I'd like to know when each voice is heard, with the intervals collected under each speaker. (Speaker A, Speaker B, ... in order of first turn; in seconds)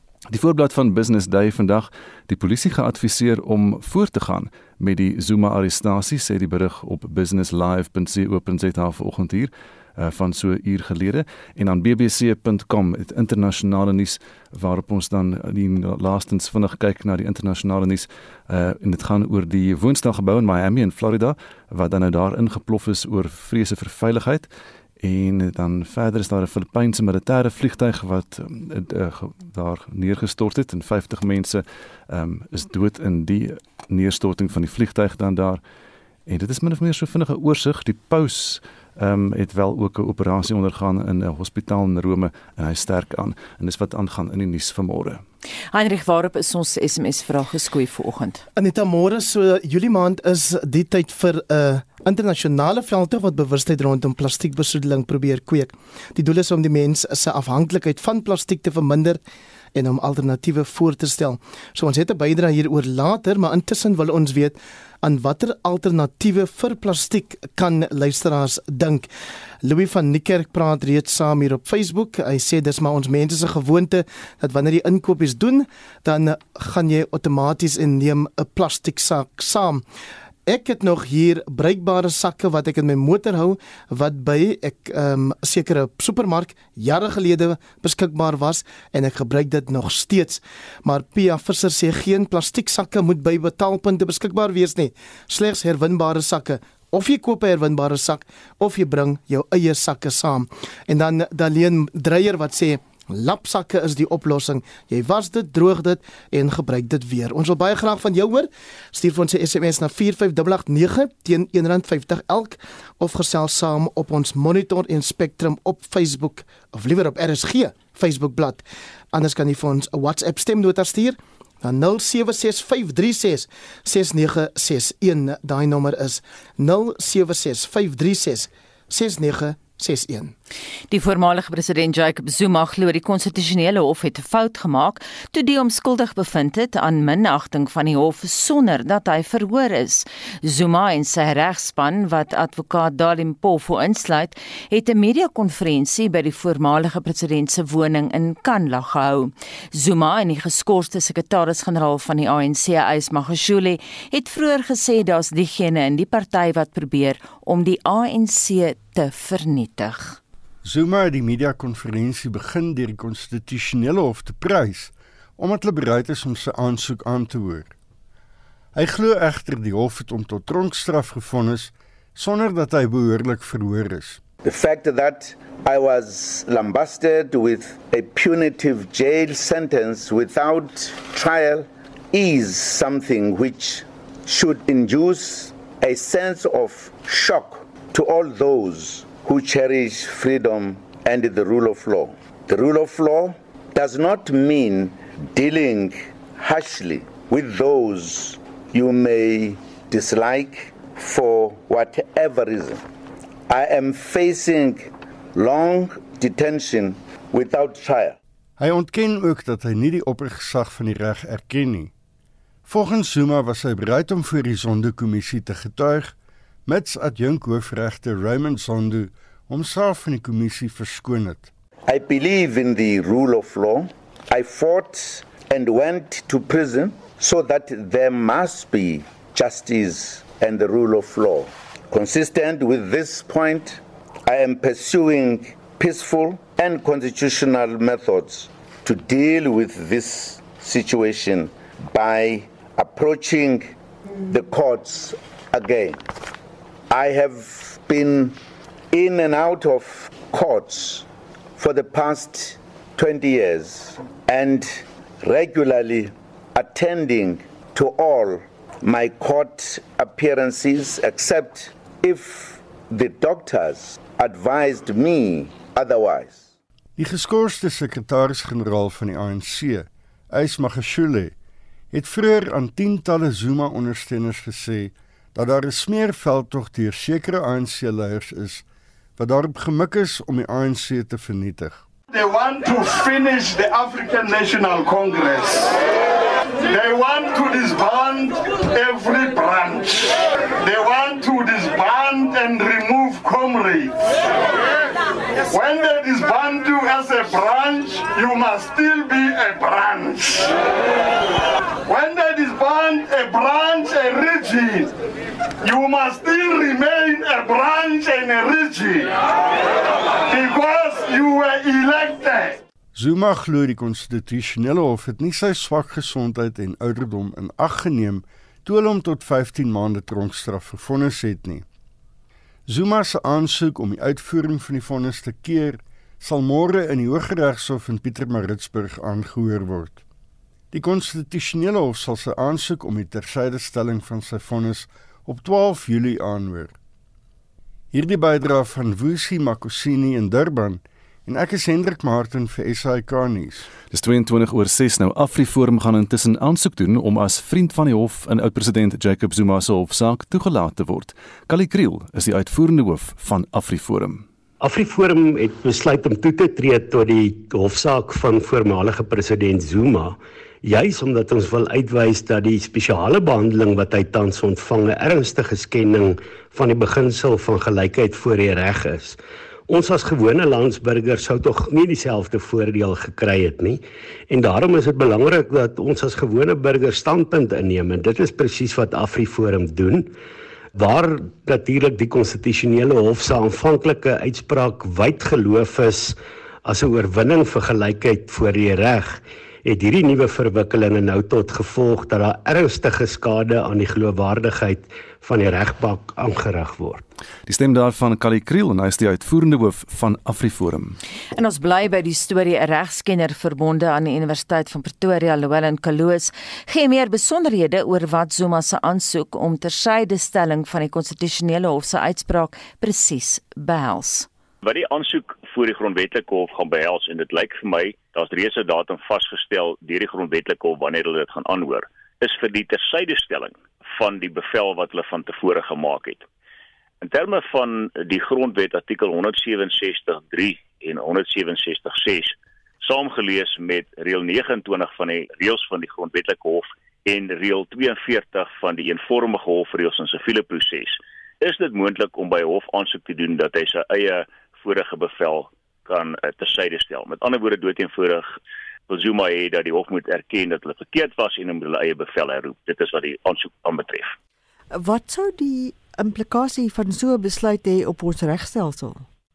Speaker A: 0.3-24.5, 25.0-35.6, 36.3-45.2, 343.9-354.2, 397.5-401.0
Speaker B: 45.7-48.4, 130.9-160.2, 401.3-414.3
Speaker C: 48.5-59.2, 59.7-69.1, 69.6-79.8, 80.5-130.3
Speaker D: 160.6-167.7, 168.7-174.2, 208.6-211.9, 212.7-216.1, 216.7-221.5, 267.0-271.3, 271.9-278.6, 279.2-281.8, 312.9-321.6, 322.7-330.0, 330.7-336.7, 337.9-343.7
Speaker E: 174.4-202.8, 203.5-208.2, 221.9-243.7, 244.2-246.0, 246.9-248.4, 248.9-251.0, 251.6-266.4
Speaker F: 282.1-285.8, 286.6-294.1, 295.4-300.6, 301.8-305.0, 305.6-309.2, 310.3-312.6
Speaker G: 354.6-380.1, 380.8-397.0
Speaker H: 414.6-426.2, 427.0-448.3, 448.9-454.1
Speaker I: 454.7-459.1